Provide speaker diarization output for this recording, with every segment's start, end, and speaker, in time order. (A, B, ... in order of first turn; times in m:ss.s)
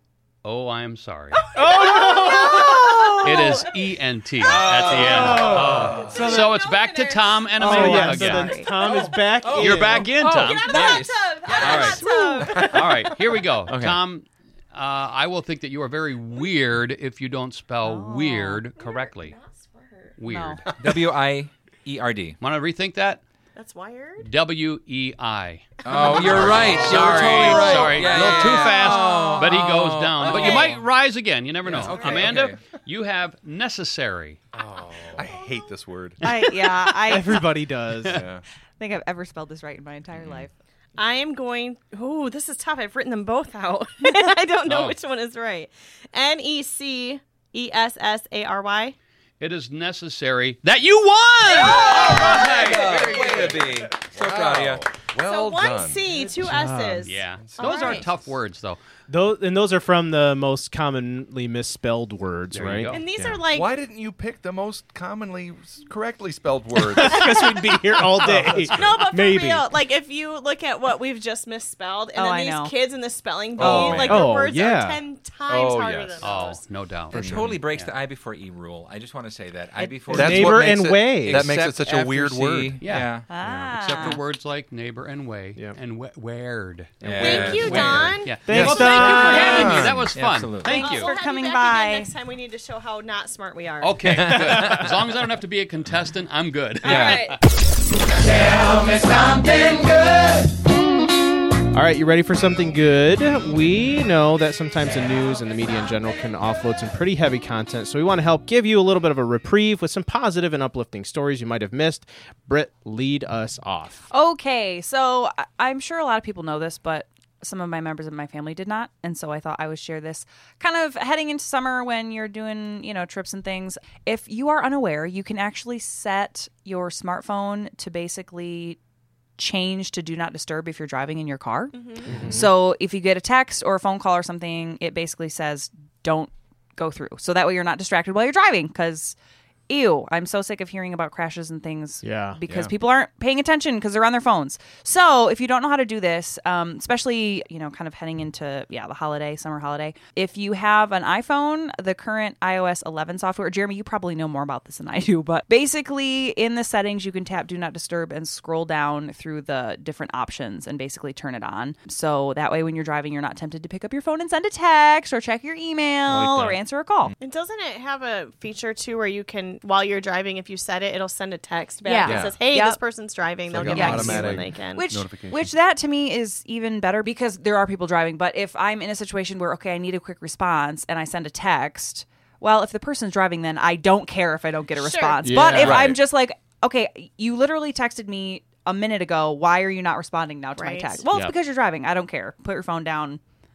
0:00.4-0:01.4 A
0:01.4-0:09.0 B
0:01.5-0:03.2 C
0:03.2-0:08.6 A
0:04.4-0:06.2 D
0:04.9-0:06.6 C
0:07.6-0:10.2 C
0:07.6-0:08.7 E
0:09.4-0:12.0 D
0:09.5-0:19.4 A
0:10.3-0:13.1 B
0:11.6-0:12.8 E
0:13.7-0:14.0 D
0:17.8-0:18.6 E
0:18.8-0:20.1 B
0:20.2-0:20.8 A
0:20.2-0:20.6 E
0:20.8-0:22.4 D
0:22.4-0:23.2 A
0:23.6-0:24.3 B
0:24.2-0:34.4 A
0:25.8-0:30.8 D
0:28.6-0:29.4 E
0:30.2-0:30.7 E
0:30.2-0:30.8 B
0:31.6-0:32.6 D
0:31.9-0:32.4 B
0:34.5-0:36.2 F
0:36.2-0:37.5 E
0:37.0-0:38.3 C
0:38.1-0:38.4 F
0:38.8-0:40.5 E
0:40.2-0:40.5 F
0:41.0-0:49.0 B
0:44.6-0:45.0 A
0:49.4-0:53.5 A
0:51.5-0:54.9 D
0:51.6-0:52.0 B
0:51.9-0:56.3 F
0:55.2-0:58.1 B
0:56.2-0:57.1 C
0:57.0-0:58.8 A
0:57.4-0:58.1 F
0:59.1-1:03.4 C
1:02.5-1:03.0 A
1:02.9-1:03.7 B
1:03.5-1:07.5 F
1:06.8-1:09.7 C
1:08.5-1:08.9 F
1:08.7-1:16.6 B
1:12.1-1:12.8 E
1:13.6-1:14.3 F
1:13.7-1:14.0 E
1:14.0-1:15.0 C
1:15.5-1:16.2 F
1:16.2-1:17.9 A
1:17.1-1:23.3 D
1:17.1-1:17.6 F
1:20.1-1:21.5 C
1:20.1-1:22.8 F
1:22.8-1:31.1 A
1:23.3-1:24.2 E
1:27.0-1:30.8 D
1:27.2-1:29.8 B
1:28.4-1:29.7 C
1:28.5-1:30.1 F
1:30.6-1:32.1 E
1:30.7-1:34.2 B
1:33.8-1:37.4 A
1:34.1-1:34.9 D
1:36.8-1:37.4 B
1:36.8-1:37.3 D
1:41.7-1:54.0 C
1:54.1-2:08.8 E
2:09.4-2:19.2 E
2:11.7-2:12.1 B
2:12.0-2:12.5 C
2:19.7-2:47.1 E
2:22.0-2:22.4 C
2:22.5-2:22.7 F
2:46.1-2:46.6 C
2:47.2-2:54.9 B
2:51.8-2:52.8 E
2:52.0-2:52.4 F
2:53.5-2:55.5 F
2:53.7-3:13.2 E
3:04.8-3:05.4 B
3:05.2-3:05.8 C
3:05.6-3:06.0 F
3:10.6-3:11.0 B
3:11.1-3:11.3 C